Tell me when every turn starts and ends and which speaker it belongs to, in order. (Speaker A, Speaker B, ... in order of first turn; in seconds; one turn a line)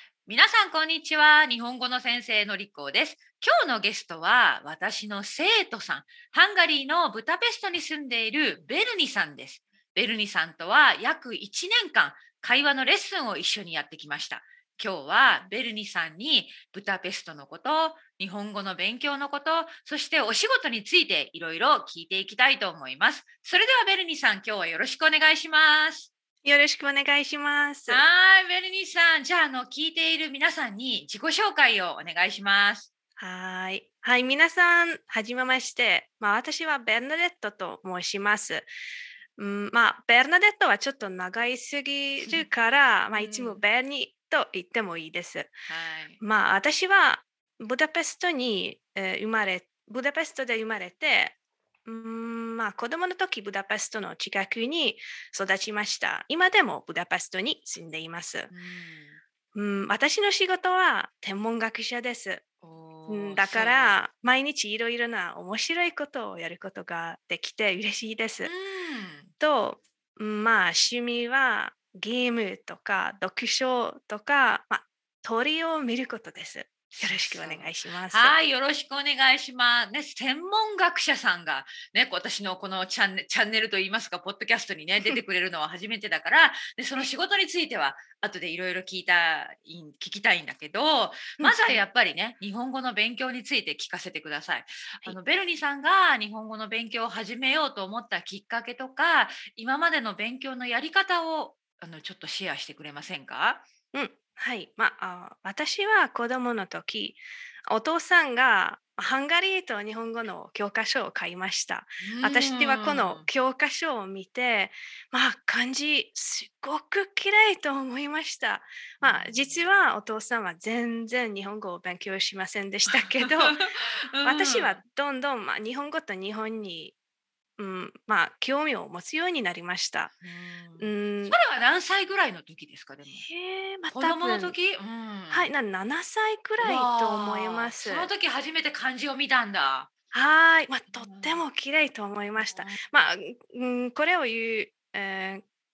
Speaker A: 0.3-26.1
Speaker B: 26.4-28.0
Speaker A: 27.9-32.9
Speaker B: 33.2-38.7
Speaker B: 39.4-45.5
Speaker A: 43.1-43.6
Speaker A: 45.7-46.2
Speaker B: 46.2-58.5
Speaker A: 58.5-59.2
Speaker B: 59.5-62.4
Speaker A: 62.6-64.0
Speaker B: 63.1-68.5
Speaker A: 68.4-69.3
Speaker B: 69.4-78.3
Speaker A: 76.9-103.7
Speaker B: 91.4-91.8
Speaker B: 103.9-123.7
Speaker A: 112.0-113.3
Speaker A: 119.0-119.9
Speaker A: 122.9-124.8
Speaker B: 124.2-127.0
Speaker B: 127.6-130.1
Speaker A: 130.2-133.3
Speaker B: 130.8-131.4
Speaker B: 133.1-134.6
Speaker A: 133.9-135.5
Speaker B: 135.3-138.1
Speaker A: 136.6-139.9
Speaker B: 140.1-145.4
Speaker A: 140.9-141.4
Speaker A: 142.4-142.8